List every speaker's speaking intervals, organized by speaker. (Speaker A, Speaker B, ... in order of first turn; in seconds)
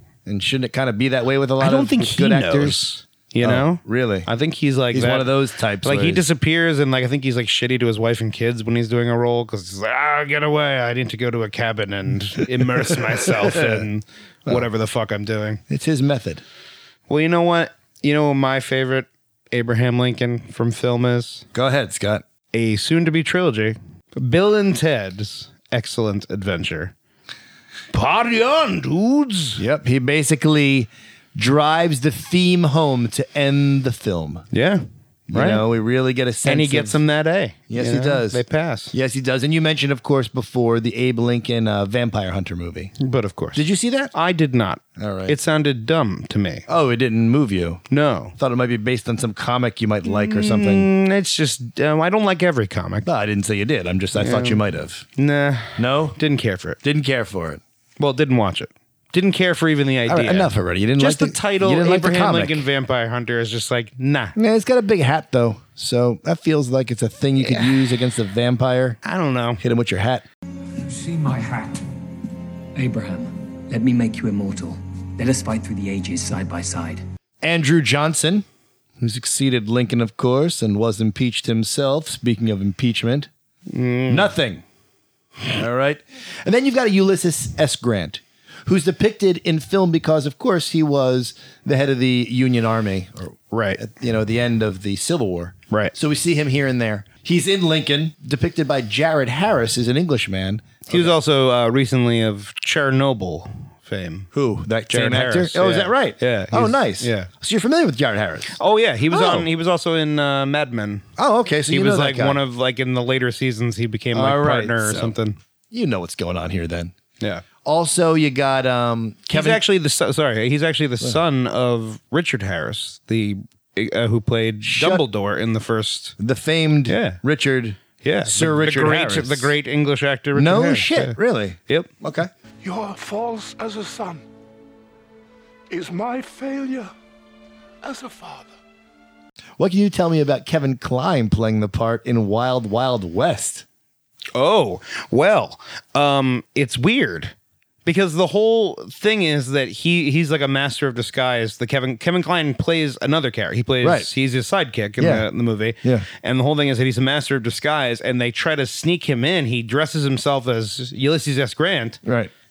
Speaker A: 0.2-2.8, 3.4-4.3, 4.9-6.2, 12.9-13.8, 15.7-16.4, 21.5-22.2, 29.6-34.5, 35.3-37.0, 37.7-42.9, 43.5-44.1, 45.0-45.4, 46.7-47.8, 48.4-50.9, 53.0-55.0, 55.8-56.2, 56.8-57.6, 60.1-62.6, 64.3-69.0, 69.6-70.2, 77.4-78.4, 79.0-83.3, 84.1-84.6, 85.5-101.1, 104.3-108.6, 109.1-109.5, 111.2-112.4, 114.1-115.1, 115.7-116.9, 117.6-119.6, 124.6-125.0, 126.2-129.5, 130.3-132.3, 139.6-143.6, 153.8-154.1, 155.0-155.2, 162.0-162.3
Speaker B: 1.6-15.6, 17.1-21.5, 22.5-26.9, 27.9-29.6, 34.5-35.6, 36.4-38.9, 43.0-46.6, 47.9-48.4, 50.0-53.1, 54.1-54.6, 55.1-56.8, 58.0-64.3, 67.4-67.8, 69.0-69.6, 83.7-84.3, 93.5-93.8, 100.9-104.3, 104.9-107.3, 108.5-111.1, 111.7-115.4, 119.3-126.2, 126.9-127.2, 128.0-131.9, 144.3-162.0
Speaker C: 70.8-71.8, 72.8-77.0
Speaker D: 132.6-134.2, 135.7-136.9, 137.8-138.5